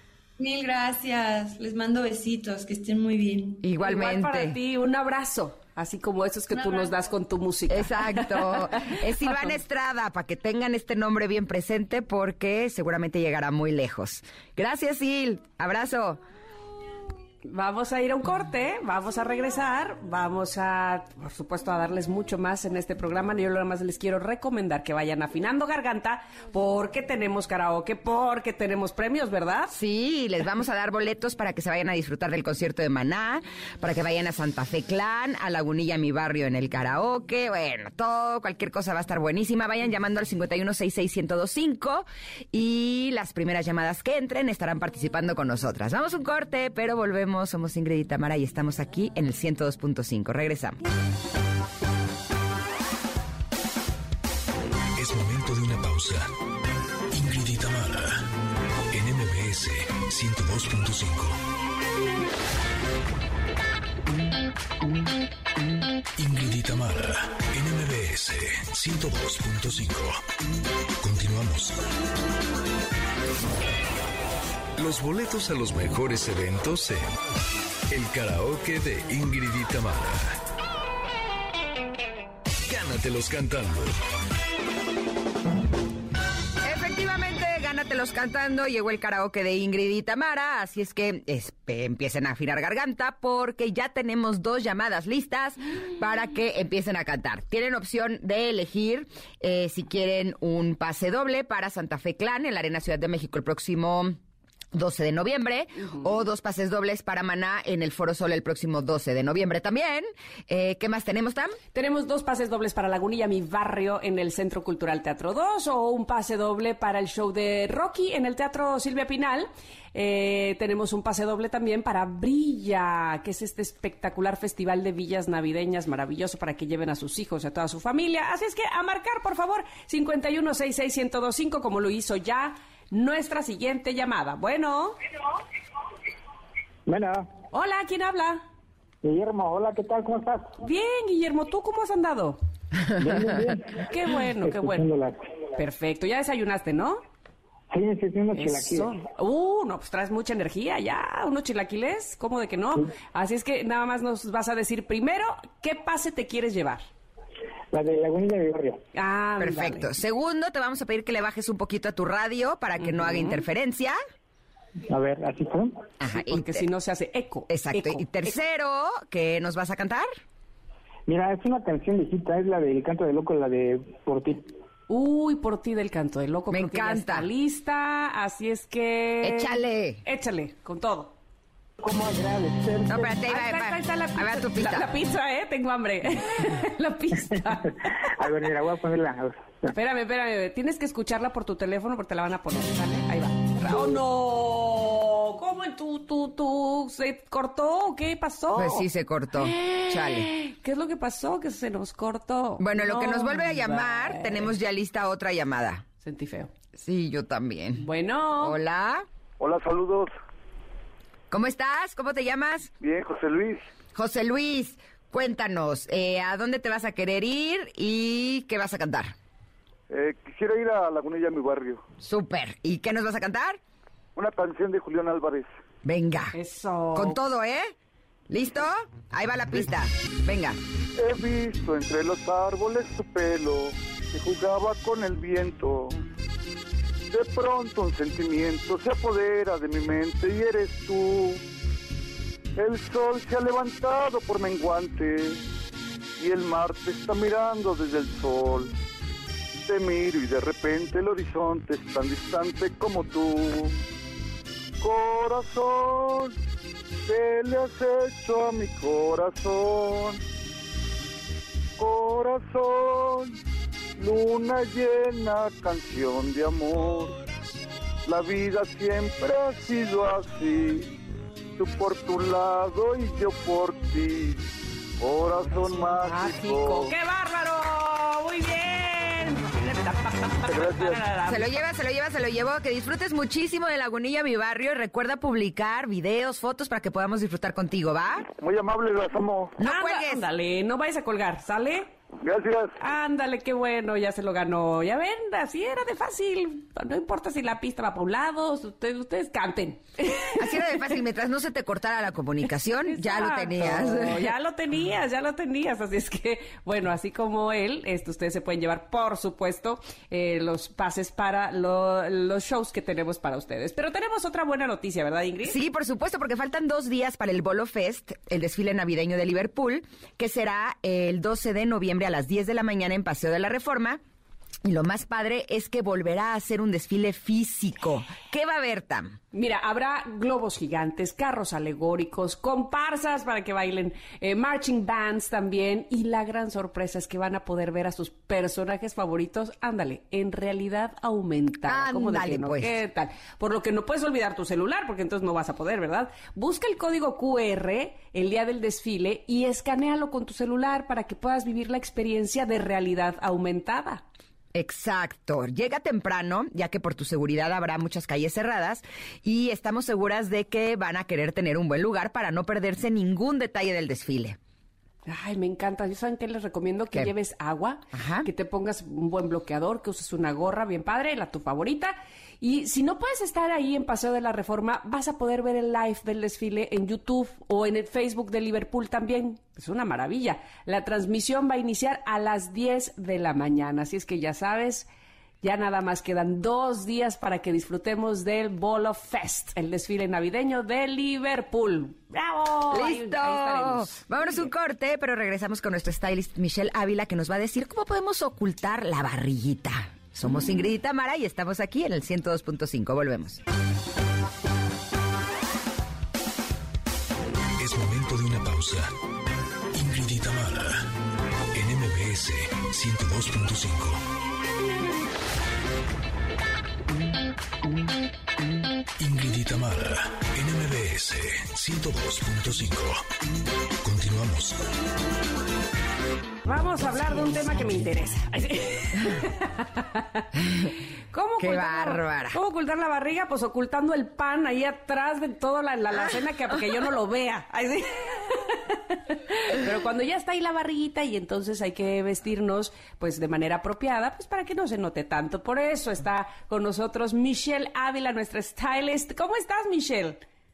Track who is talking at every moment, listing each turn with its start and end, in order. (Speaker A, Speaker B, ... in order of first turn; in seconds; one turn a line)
Speaker A: 0.4-3.6
Speaker B: 3.6-4.5
Speaker C: 3.8-9.0
Speaker A: 6.5-7.0
Speaker B: 7.7-16.2
Speaker C: 17.4-29.7
Speaker B: 29.7-50.8
Speaker D: 55.0-56.3
Speaker D: 57.1-58.3
Speaker D: 58.9-61.4
Speaker D: 66.2-70.2
Speaker D: 71.0-71.8
Speaker D: 74.8-77.0
Speaker D: 77.9-80.3
Speaker D: 82.7-83.9
Speaker B: 86.6-104.2
Speaker B: 104.7-111.6
Speaker C: 111.7-135.0
Speaker E: 136.9-137.3
Speaker C: 137.5-138.4
Speaker E: 139.0-140.6
Speaker C: 140.6-142.4
Speaker E: 142.9-145.2
Speaker C: 143.8-144.9
Speaker C: 145.5-147.0
Speaker E: 147.7-149.0
Speaker C: 148.3-156.8
Speaker E: 157.7-158.8
Speaker C: 158.9-159.9
Speaker B: 159.4-163.9
Speaker C: 162.8-163.4
Speaker E: 164.9-165.7
Speaker B: 166.0-166.7
Speaker C: 166.1-168.3
Speaker B: 167.5-170.1
Speaker E: 171.1-174.5
Speaker C: 174.9-181.1
Speaker B: 176.5-177.3
Speaker B: 179.2-180.0
Speaker E: 181.8-183.1
Speaker B: 182.8-184.9
Speaker C: 183.2-188.3
Speaker E: 188.2-189.7
Speaker C: 189.7-204.5
Speaker B: 198.5-200.3
Speaker B: 202.6-205.8
Speaker C: 206.0-206.5
Speaker B: 206.8-207.8
Speaker C: 207.8-208.6
Speaker B: 208.4-209.1
Speaker F: 209.4-210.1
Speaker B: 211.3-212.7
Speaker F: 212.8-213.7
Speaker B: 213.9-219.1
Speaker F: 219.9-221.8
Speaker B: 222.0-223.6
Speaker F: 224.2-225.5
Speaker B: 225.8-226.3
Speaker C: 226.3-227.2
Speaker B: 226.9-227.7
Speaker B: 228.3-230.6
Speaker F: 230.9-235.9
Speaker F: 237.1-241.4
Speaker F: 242.6-245.4
Speaker F: 246.2-248.7
Speaker F: 249.6-253.8
Speaker F: 254.8-256.3
Speaker F: 257.1-260.2
Speaker F: 261.8-263.4
Speaker F: 264.0-267.2
Speaker F: 268.0-270.9
Speaker F: 271.6-276.9
Speaker C: 275.4-281.6
Speaker F: 280.5-281.0
Speaker B: 281.3-288.3
Speaker F: 288.3-289.6
Speaker B: 289.6-290.2
Speaker C: 289.6-291.9
Speaker F: 292.2-292.8
Speaker C: 292.8-300.8
Speaker B: 300.4-304.3
Speaker C: 302.8-315.6
Speaker B: 315.4-324.0
Speaker B: 324.6-329.2
Speaker C: 329.3-354.0
Speaker B: 341.7-342.8
Speaker B: 354.5-364.4
Speaker C: 365.1-384.9
Speaker B: 367.9-368.3
Speaker C: 385.4-394.5
Speaker B: 392.7-403.4
Speaker D: 407.6-408.9
Speaker D: 409.7-410.9
Speaker D: 411.5-414.0
Speaker D: 419.0-423.1
Speaker D: 423.8-424.6
Speaker C: 426.4-430.3
Speaker C: 431.1-450.2
Speaker B: 431.4-432.4